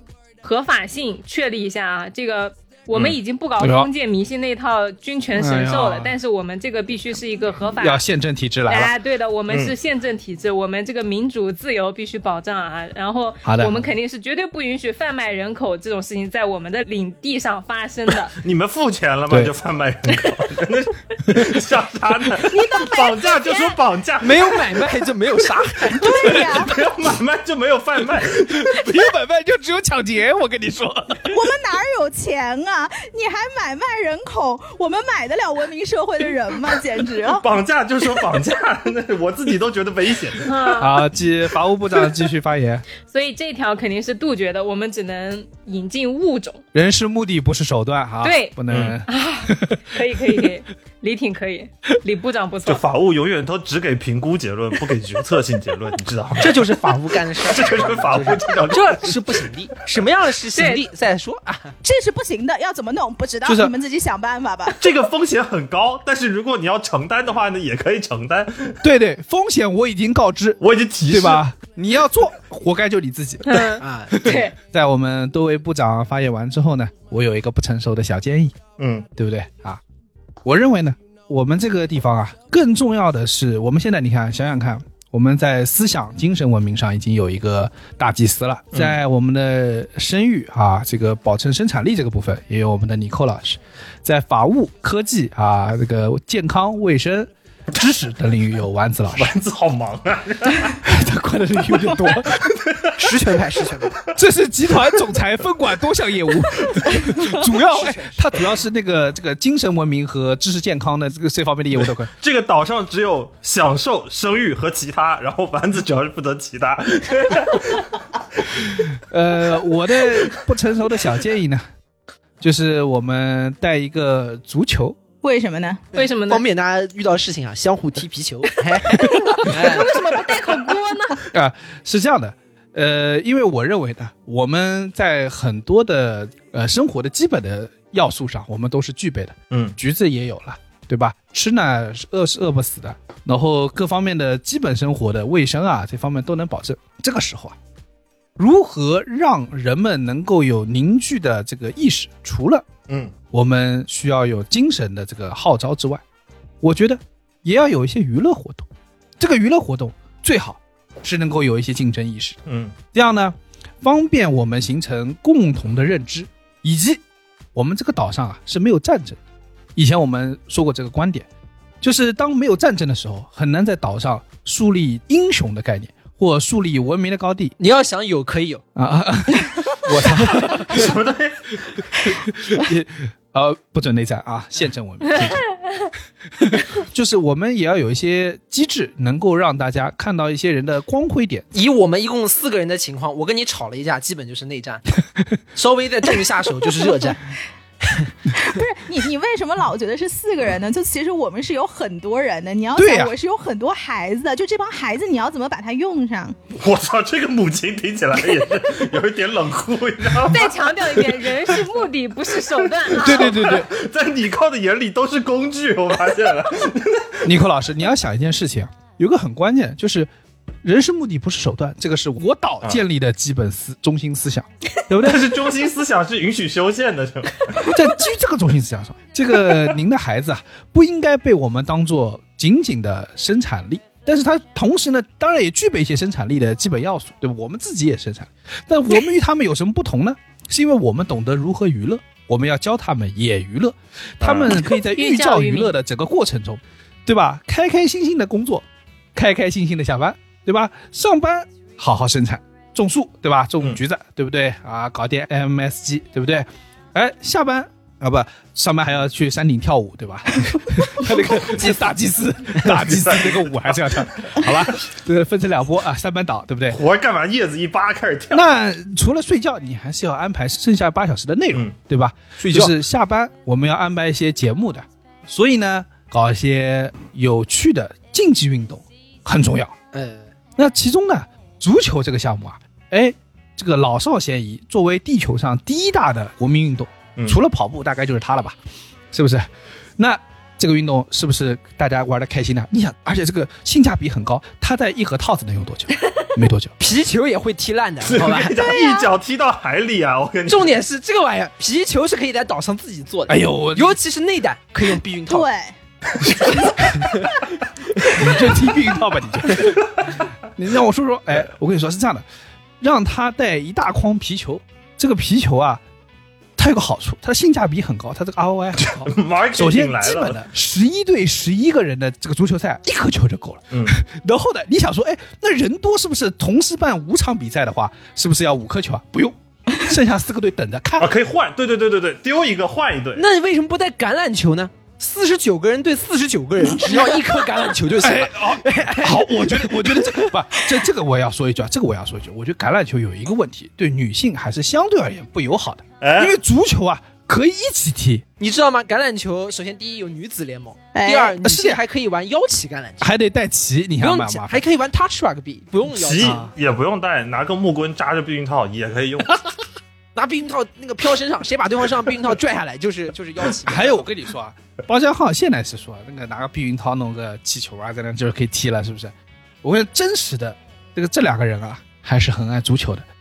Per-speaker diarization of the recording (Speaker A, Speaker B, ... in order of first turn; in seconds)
Speaker A: 0.4-8.0, 8.7-18.4, 22.5-23.8, 40.5-40.9, 43.0-46.6, 48.2-52.8, 60.5-60.8, 73.5-74.5, 125.9-126.5, 129.3-131.2, 210.3-213.4, 244.7-245.7
Speaker B: 3.6-3.9, 5.4-6.1, 7.8-8.9, 13.4-13.9, 28.5-31.5, 40.8-42.8, 46.7-49.8, 63.4-63.7, 68.8-78.6, 79.2-79.8, 80.4-99.3, 100.8-102.5, 104.1-112.1, 118.9-121.6, 122.4-125.0, 131.3-147.6, 148.4-152.7, 153.3-156.0, 156.6-158.7, 159.2-162.4, 162.9-167.0, 167.5-169.2, 169.8-171.3, 171.8-177.5, 178.8-180.9, 182.0-185.4, 186.4-191.4, 202.8-203.1, 213.0-213.7, 217.2-220.1, 220.6-225.4, 227.7-266.8, 268.3-279.7, 280.6-288.6, 289.1-296.7, 303.3-304.0, 308.1-309.9, 310.6-312.2, 312.8-315.8, 316.6-331.1, 338.0-348.2, 351.4-351.8, 353.0-354.6, 356.2-356.5, 363.6-373.0
Speaker C: 18.4-24.6, 26.5-28.8, 37.4-40.8, 48.7-49.0, 52.6-59.4, 64.8-68.8, 70.6-71.4, 78.8-79.1, 99.2-100.8, 102.3-103.1, 112.2-117.9, 139.5-139.8, 152.9-153.1, 162.5-162.8, 180.7-181.4, 206.6-210.5, 212.9-217.3, 225.0-227.7, 244.2-244.6, 262.8-264.7, 266.7-268.4, 298.0-300.8, 318.9-320.4, 331.0-333.2, 346.0-346.4, 355.9-359.5
Speaker D: 24.2-26.5, 56.4-61.7, 73.8-74.5, 103.0-104.0, 107.3-108.4, 125.9-130.2, 177.6-178.6, 191.5-194.8, 195.5-197.2, 197.8-198.1, 279.9-280.3, 296.8-298.6, 300.5-305.4, 306.5-307.4, 333.1-340.3, 348.4-353.1, 354.0-356.4, 360.1-364.0
Speaker E: 26.0-26.8, 31.3-37.5, 61.8-64.8, 125.2-125.8, 198.4-206.4, 298.6-299.1, 305.3-305.7, 350.9-351.4